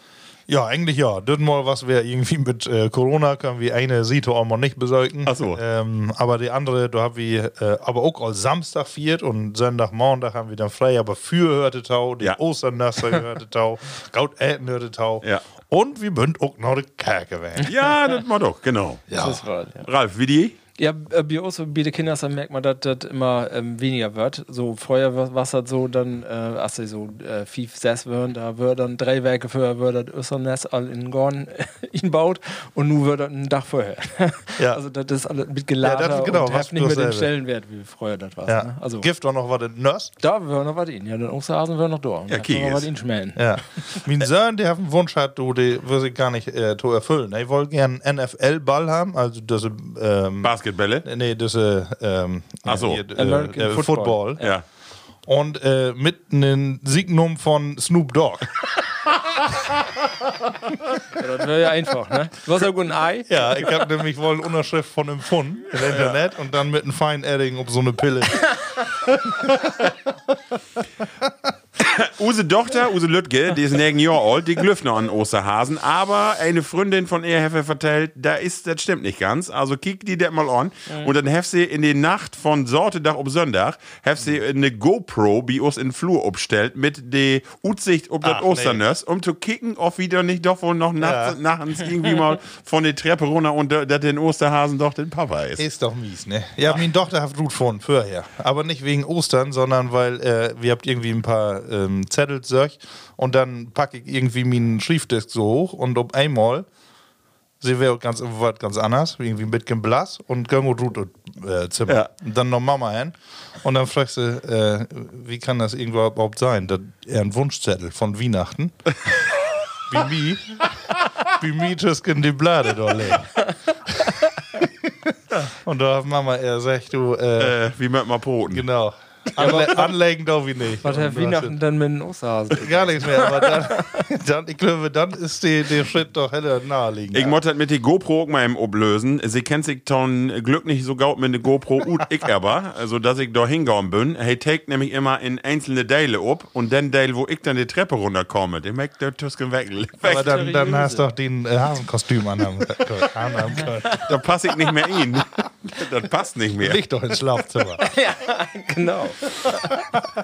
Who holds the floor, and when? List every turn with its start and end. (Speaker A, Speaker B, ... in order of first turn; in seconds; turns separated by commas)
Speaker A: 0.5-17.7, Speaker B: 5.2-5.6, Speaker B: 17.6-19.2, Speaker A: 19.1-19.4, Speaker C: 19.1-19.9, Speaker B: 19.8-20.6, Speaker C: 20.8-39.1, Speaker A: 35.8-37.3, Speaker A: 38.5-40.1, Speaker C: 40.2-44.0, Speaker B: 42.3-42.9, Speaker A: 43.4-50.5, Speaker B: 50.4-51.0, Speaker A: 51.0-54.4, Speaker B: 52.6-53.0, Speaker C: 53.1-54.5, Speaker A: 55.2-58.5, Speaker C: 61.1-63.7, Speaker A: 63.3-68.6, Speaker B: 65.9-66.1, Speaker A: 69.2-69.5, Speaker B: 71.8-95.6, Speaker A: 88.2-88.8, Speaker A: 91.0-91.4, Speaker A: 95.6-106.7, Speaker A: 107.6-118.7, Speaker A: 119.9-120.6, Speaker A: 121.3-123.4, Speaker A: 124.5-124.9, Speaker A: 125.5-127.6, Speaker B: 127.4-128.7, Speaker A: 128.5-131.6, Speaker C: 129.4-129.9, Speaker C: 130.8-134.0, Speaker A: 132.5-137.4, Speaker B: 137.1-150.4, Speaker A: 150.0-154.1, Speaker C: 150.1-151.1, Speaker B: 154.0-156.8, Speaker A: 156.6-157.8, Speaker C: 157.8-159.8